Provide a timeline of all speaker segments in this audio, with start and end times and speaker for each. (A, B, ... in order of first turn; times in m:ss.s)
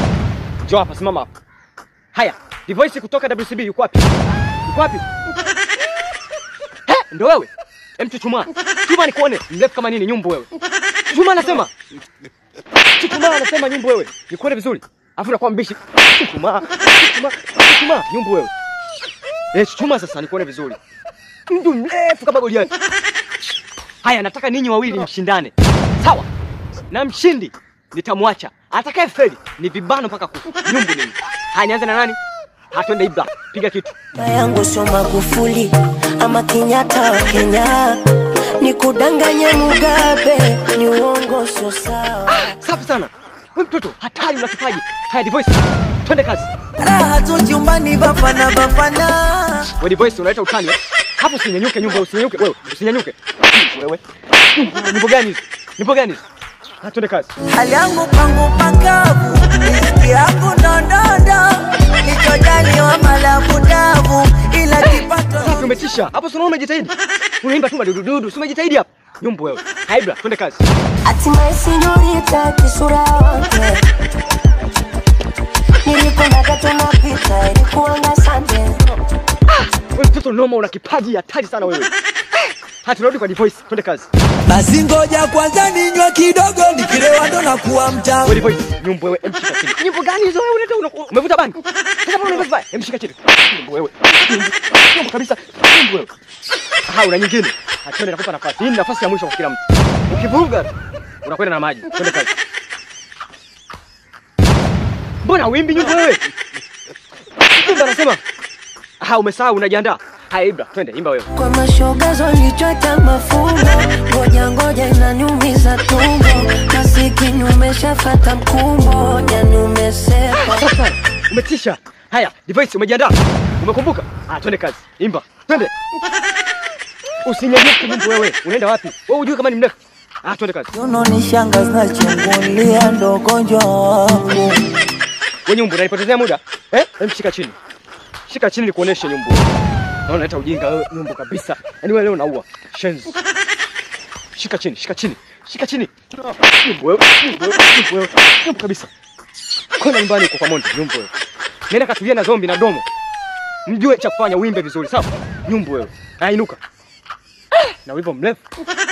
0:00.6-0:01.3 A
0:02.1-0:04.1 A
0:04.7-0:05.0 A
0:06.9-0:10.5 A
0:11.1-0:11.7 A
0:13.0-0:18.5 A
0:19.5-0:20.8 A
0:21.5-0:22.7 A
0:24.0-0:26.3 A
0:26.9-0:32.2 A
0:32.7-0:34.0 A
0:34.2-0:42.5 B
0:42.3-0:46.5 A
0:46.8-0:49.7 C
0:49.8-0:56.2 A
0:56.8-0:57.3 A
0:57.4-1:05.7 C
1:04.8-1:10.6 A
1:11.0-1:14.0 B
1:15.8-1:19.0 B
1:19.5-1:24.1 A
1:24.5-1:28.4 C
1:28.2-1:36.1 A
1:36.9-1:40.7 A
1:41.2-1:42.3 A
1:45.2-1:46.2 A
1:47.5-1:48.2 A
1:49.0-1:51.3 A
1:51.3-2:00.7 B
2:00.4-2:05.7 A
2:07.2-2:10.7 A
2:10.7-2:14.7 C
2:15.5-2:17.6 A
2:18.3-2:19.5 A
2:20.1-2:23.2 A
2:24.4-2:28.9 A
2:29.8-2:31.1 A
2:31.7-2:32.9 A
2:33.7-2:36.6 A
2:37.7-2:38.4 A